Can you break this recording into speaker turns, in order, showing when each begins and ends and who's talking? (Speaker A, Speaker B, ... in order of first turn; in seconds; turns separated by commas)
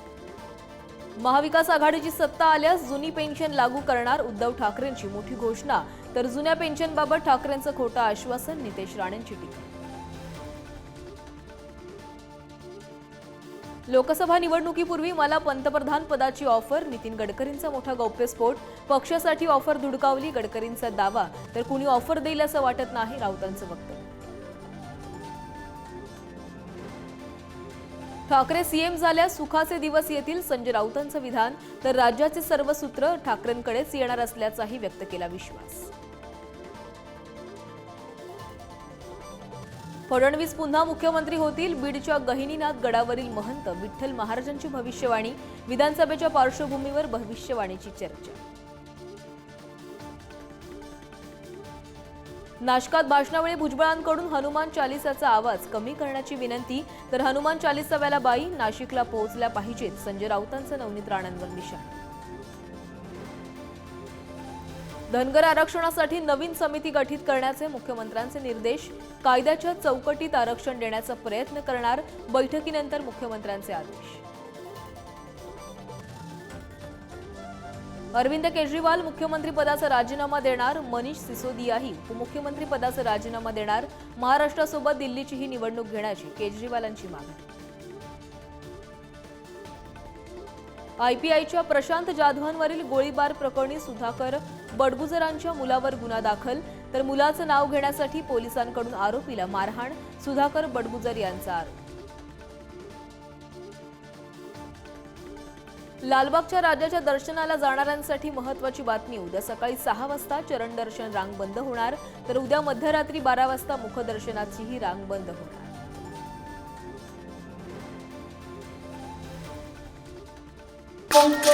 Speaker A: 1.2-9.7, Speaker A: 13.9-24.1, Speaker A: 28.3-35.9, Speaker A: 40.1-48.4, Speaker A: 52.6-62.0, Speaker A: 65.1-74.2, Speaker A: 78.1-87.5, Speaker A: 91.0-101.8, Speaker A: 106.0-115.7